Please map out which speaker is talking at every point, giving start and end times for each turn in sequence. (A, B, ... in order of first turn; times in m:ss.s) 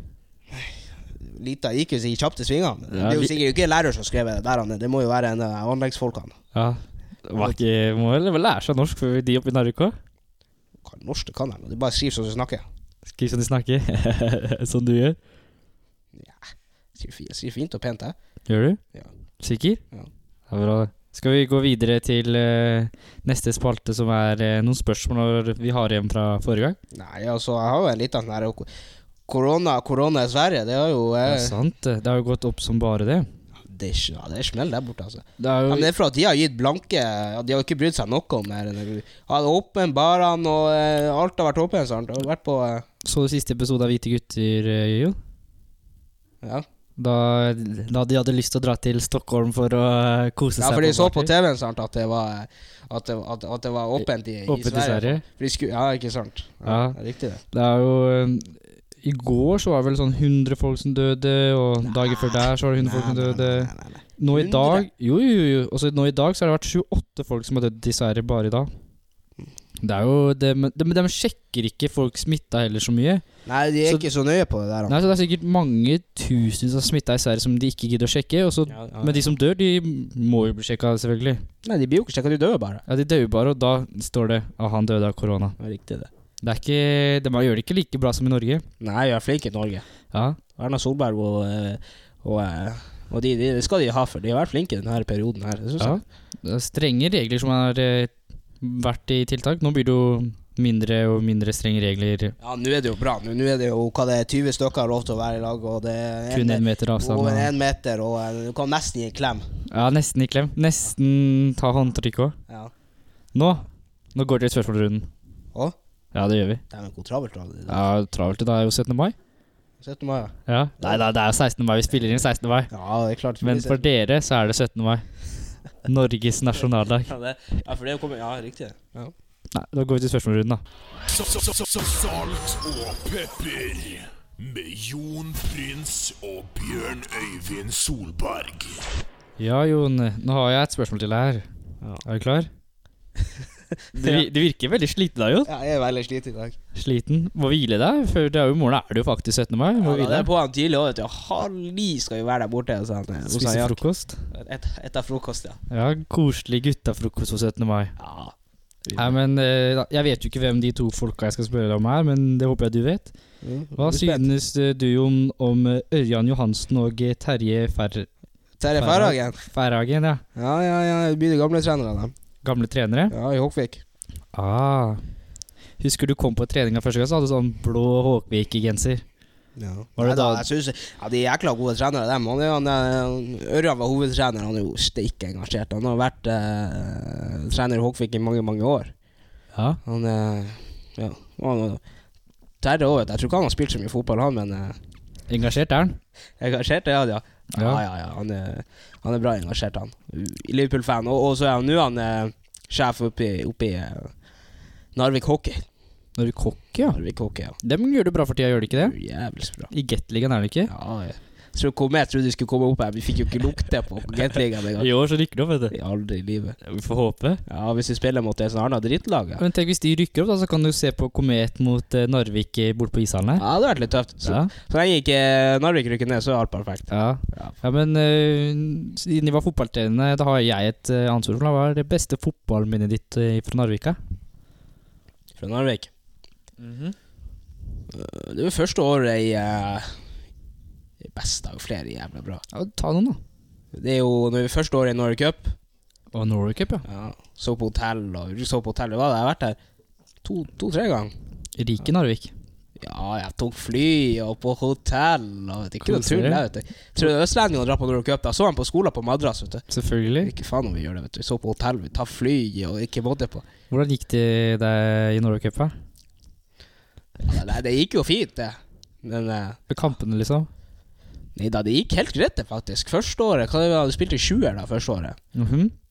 0:00.5-0:06.4 A
0:02.9-0:03.3 B
0:06.5-0:09.9 B
0:10.8-0:12.6 A
0:13.0-0:15.2 B
0:16.1-0:18.1 A
0:18.5-0:18.8 B
0:19.4-0:19.8 B
0:20.5-0:26.8 B
0:26.9-0:28.7 A
0:29.3-0:31.6 A
0:31.2-0:33.3 B
0:33.6-0:42.8 A
0:35.4-0:35.9 B
0:43.0-0:45.2 B
0:47.0-0:51.3 B
0:50.6-0:57.4 A
0:54.5-0:55.2 B
0:56.6-0:57.0 B
0:57.5-1:08.7 B
1:01.8-1:04.9 A
1:09.8-1:13.2 B
1:13.4-1:15.0 A
1:14.9-1:21.4 B
1:18.7-1:19.3 A
1:21.6-1:22.8 A
1:22.9-1:25.6 B
1:25.6-1:26.1 A
1:26.4-1:28.6 B
1:28.8-1:29.8 A
1:30.1-1:30.4 B
1:30.5-1:36.0 A
1:35.8-1:42.4 B
1:42.4-1:49.4 A
1:46.3-1:47.5 B
1:49.7-1:52.4 B
1:53.3-1:55.1 B
1:56.1-1:56.6 B
1:56.7-1:57.9 A
1:57.7-1:59.1 B
1:59.8-2:01.0 A
2:00.5-2:02.7 B
2:02.7-2:03.8 A
2:03.4-2:05.1 B
2:05.8-2:07.1 B
2:07.0-2:09.1 A
2:09.5-2:10.6 B
2:11.1-2:18.9 C
2:19.4-2:21.5 B
2:22.0-2:22.5 B
2:23.9-2:25.5 B
2:24.0-2:24.3 A
2:25.4-2:26.6 A
2:26.7-2:30.3 B
2:29.8-2:33.8 A
2:33.3-2:34.2 B
2:34.3-2:35.6 A
2:35.7-2:37.9 B
2:38.0-2:38.3 A
2:38.8-2:39.1 A
2:39.0-2:43.1 B
2:43.4-2:44.3 A
2:43.8-2:48.1 B
2:48.6-2:49.4 A
2:48.7-2:50.2 B
2:50.4-2:52.1 A
2:52.4-2:53.1 B
2:53.1-2:53.8 A
2:54.3-2:55.0 B
2:55.8-2:59.0 B
2:59.6-3:08.9 A
3:00.0-3:00.5 B
3:09.5-3:09.8 B
3:09.8-3:11.8 A
3:12.6-3:14.8 A
3:15.3-3:16.0 B
3:16.4-3:24.1 A
3:17.5-3:17.8 B
3:24.9-3:25.6 A
3:26.2-3:27.0 B
3:26.8-3:27.6 A
3:27.6-3:29.0 B
3:28.7-3:29.7 A
3:29.7-3:30.7 B
3:30.7-3:34.9 A
3:34.8-3:35.7 B
3:35.7-3:36.6 A
3:36.6-3:37.4 B
3:37.5-3:39.4 A
3:39.4-3:43.4 B
3:43.4-3:47.5 A
3:44.2-3:44.5 B
3:46.9-3:54.0 B
3:55.4-3:55.9 A
3:56.6-3:57.0 B
3:57.9-3:59.9 A
4:01.0-4:02.4 A
4:02.5-4:03.2 B
4:03.7-4:05.5 A
4:06.1-4:06.8 B
4:06.8-4:09.6 A
4:10.2-4:11.1 A
4:11.6-4:12.3 B
4:12.8-4:19.6 A
4:15.8-4:16.4 B
4:19.7-4:20.3 B
4:20.2-4:23.4 A
4:23.7-4:25.7 B
4:27.2-4:29.6 A
4:29.7-4:30.5 B
4:31.4-4:35.2 A
4:35.3-4:35.7 B